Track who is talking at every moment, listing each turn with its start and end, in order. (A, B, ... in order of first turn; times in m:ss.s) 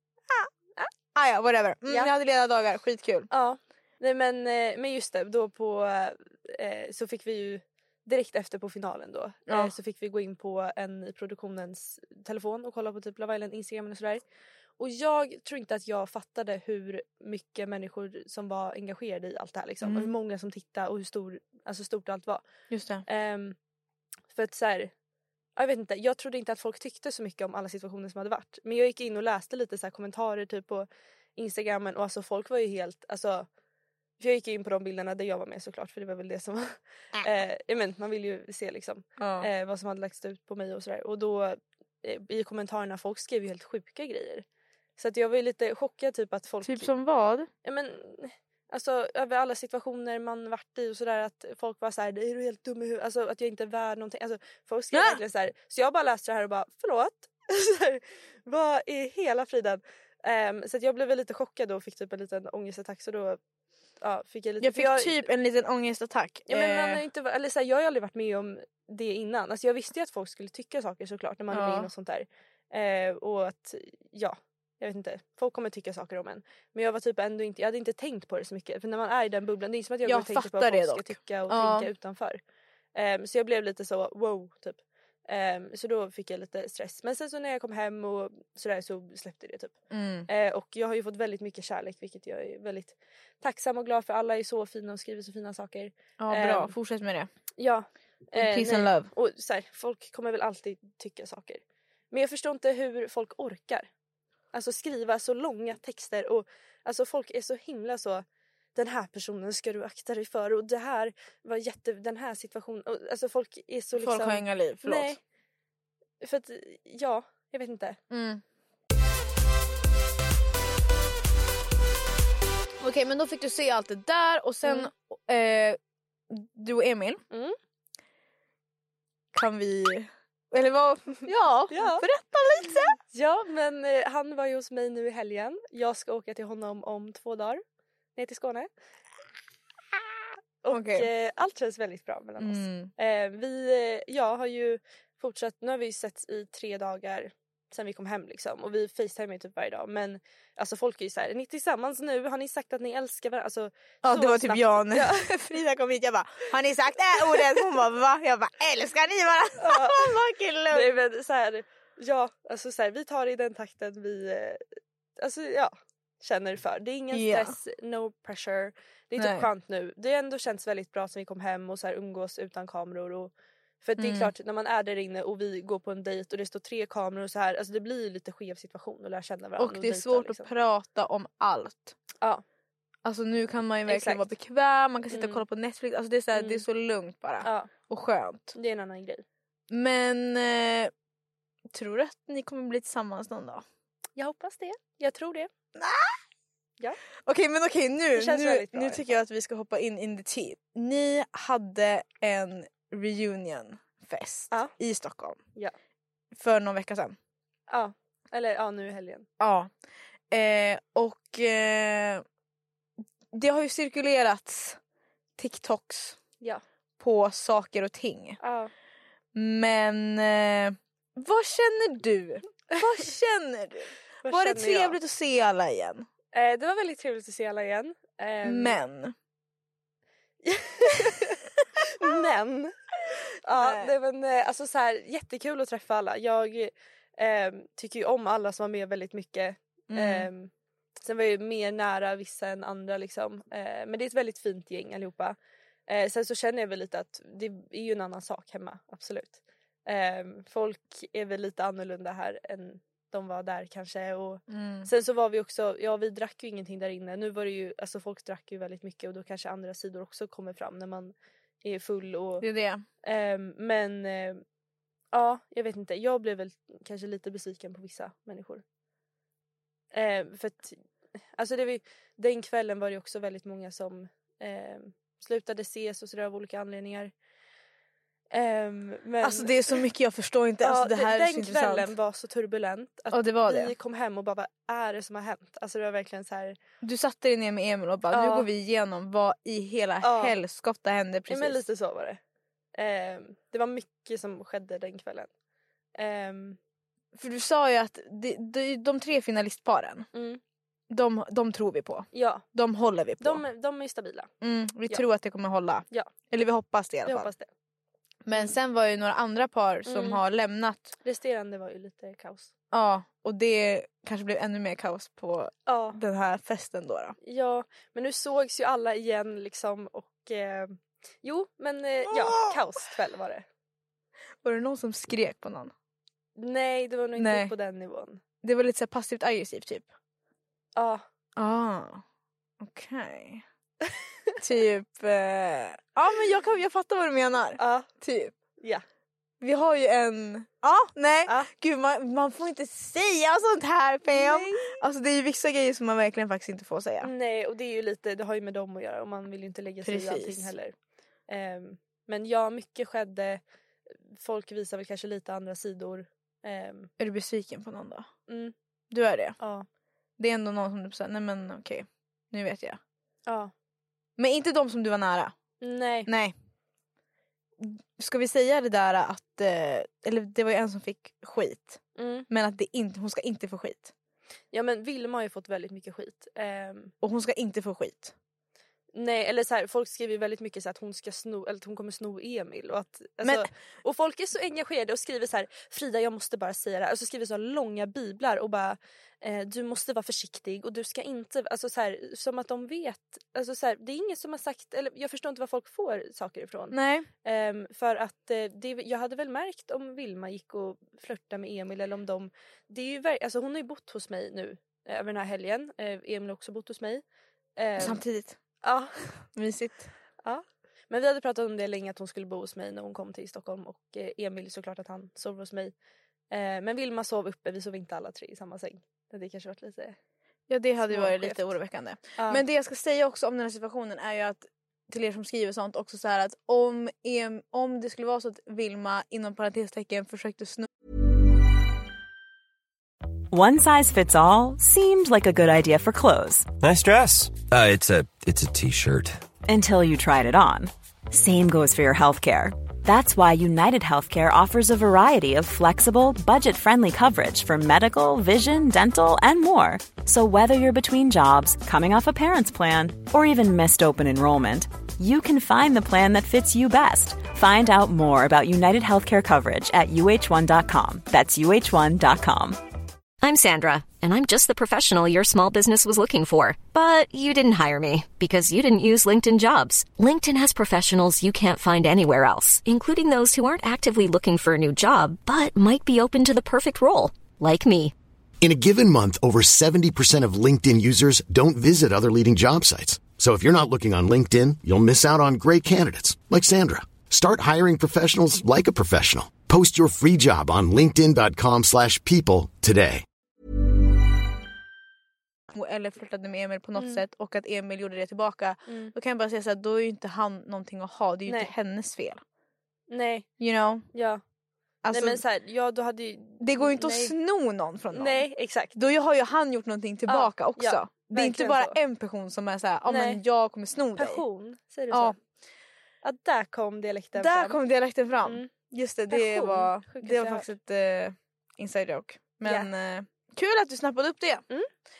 0:01.1-0:03.3 A
0:01.9-0:02.1 B
0:03.3-0:14.2 B
0:09.5-0:09.7 A
0:14.8-0:22.4 B
0:19.8-0:20.1 A
0:22.7-0:23.0 A
0:23.1-0:23.6 B
0:24.3-0:24.9 B
0:25.6-0:33.5 B
0:34.2-0:44.4 B
0:39.2-0:39.5 A
0:45.0-0:46.9 B
0:46.6-0:47.5 A
0:47.6-1:03.4 B
0:54.9-0:55.2 A
1:04.0-1:05.2 B
1:04.6-1:07.0 A
1:06.5-1:22.4 B
1:11.5-1:11.9 A
1:20.0-1:21.9 A
1:22.9-1:29.7 B
1:29.9-1:30.3 A
1:30.3-1:36.7 B
1:36.2-1:37.3 A
1:37.6-1:43.9 B
1:38.3-1:39.1 A
1:44.5-1:48.2 B
1:48.7-1:55.2 B
1:53.9-1:55.2 A
1:56.2-1:58.0 B
1:58.1-1:58.4 A
2:02.8-2:05.8 A
2:04.6-2:04.9 B
2:06.3-2:07.2 A
2:07.3-2:07.6 B
2:09.3-2:13.0 A
2:11.7-2:12.0 B
2:13.1-2:17.6 B
2:18.2-2:18.7 B
2:20.6-2:35.4 B
2:20.7-2:21.1 A
2:22.4-2:22.9 A
2:34.0-2:41.0 A
2:39.6-2:40.1 B
2:40.7-2:44.6 B
2:45.2-3:00.5 B
2:47.1-2:47.6 A
2:49.2-2:49.5 A
2:54.0-2:54.3 A
2:59.6-3:02.0 A
3:03.0-3:08.5 A
3:03.9-3:04.2 B
3:05.1-3:05.4 B
3:06.3-3:06.6 B
3:07.4-3:07.7 B
3:08.5-3:09.2 B
3:09.7-3:10.9 A
3:11.7-3:13.6 A
3:14.2-3:15.5 B
3:15.7-3:16.2 A
3:17.2-3:25.4 A
3:18.1-3:19.0 B
3:26.3-3:27.2 A
3:27.7-3:29.3 B
3:29.4-3:29.7 A
3:30.3-3:32.2 A
3:33.3-3:34.8 A
3:35.4-3:36.2 A
3:37.0-3:38.4 A
3:38.4-3:38.7 B
3:39.3-3:46.0 A
3:44.2-3:45.0 B
3:46.3-3:48.8 B
3:48.4-3:49.1 A
3:50.4-3:52.7 B
3:53.4-4:00.5 B
3:53.5-3:53.9 A
3:59.9-4:00.3 A
4:01.0-4:05.4 B
4:05.9-4:22.4 B
4:14.5-4:14.9 A
4:22.4-4:22.8 A
4:23.0-4:24.4 B
4:25.1-4:28.6 B
4:29.9-4:30.8 B
4:31.3-4:37.1 B
4:38.3-4:39.8 B
4:39.2-4:41.9 A
4:40.6-4:46.6 B
4:43.1-4:43.7 A
4:46.8-4:51.6 A
4:48.1-4:48.5 B
4:50.0-4:50.4 B
4:51.3-4:52.2 B
4:52.7-4:55.3 B
4:55.9-4:56.6 B
4:57.1-5:00.1 A
5:00.1-5:00.4 B
5:00.9-5:03.4 A
5:02.1-5:02.4 B
5:03.2-5:04.3 B
5:04.4-5:07.3 A
5:07.0-5:07.5 B
5:08.2-5:10.9 A
5:09.8-5:10.2 B
5:11.0-5:12.5 B
5:12.7-5:17.2 A
5:15.7-5:16.0 B
5:17.2-5:23.4 B
5:22.1-5:22.6 A
5:24.4-5:25.7 A
5:26.4-5:28.2 B
5:27.2-5:27.5 A
5:28.4-5:29.8 A
5:30.8-5:31.0 B
5:31.4-5:32.0 A
5:32.6-5:33.4 A
5:34.4-5:38.3 A
5:37.6-5:37.9 B
5:39.4-5:47.1 A
5:44.1-5:44.8 B
5:47.0-5:50.7 B
5:49.8-5:50.5 A
5:51.3-5:53.4 B
5:54.1-5:56.9 B
5:57.0-5:58.1 A
5:58.3-5:58.5 B
5:58.9-5:59.4 A
5:59.4-5:59.6 B
6:00.2-6:02.8 A
6:03.3-6:03.5 B
6:04.2-6:05.3 A
6:05.6-6:06.1 B
6:06.0-6:06.3 A
6:07.6-6:13.9 A
6:12.0-6:12.3 B
6:14.5-6:16.9 B
6:17.0-6:18.1 A
6:18.9-6:47.0 B
6:23.2-6:23.5 A
6:36.7-6:37.1 A
6:47.6-6:48.0 B
6:47.8-6:48.4 A
6:48.6-6:48.9 B
6:49.3-6:49.9 A
6:50.2-6:55.7 B
6:56.3-7:00.0 B
7:00.5-7:10.7 A
7:00.9-7:01.4 B
7:02.2-7:02.4 B
7:13.3-7:16.5 C
7:16.6-7:19.2 D
7:19.4-7:42.6 C
7:43.2-7:57.9 E
7:58.4-8:13.0 F
8:15.5-8:22.2 A
8:18.7-8:18.9 B
8:21.3-8:21.5 B
8:22.9-8:23.3 B
8:23.4-8:23.8 A
8:23.9-8:24.2 B
8:24.8-8:25.2 A
8:24.9-8:27.1 B
8:26.4-8:34.2 A
8:27.9-8:28.8 B
8:30.1-8:31.8 B
8:32.9-8:33.2 B
8:34.0-8:35.2 B
8:34.9-8:35.2 A
8:36.0-8:37.6 B
8:37.1-8:44.4 A
8:38.2-8:38.5 B
8:39.1-8:40.5 B
8:42.4-8:42.7 B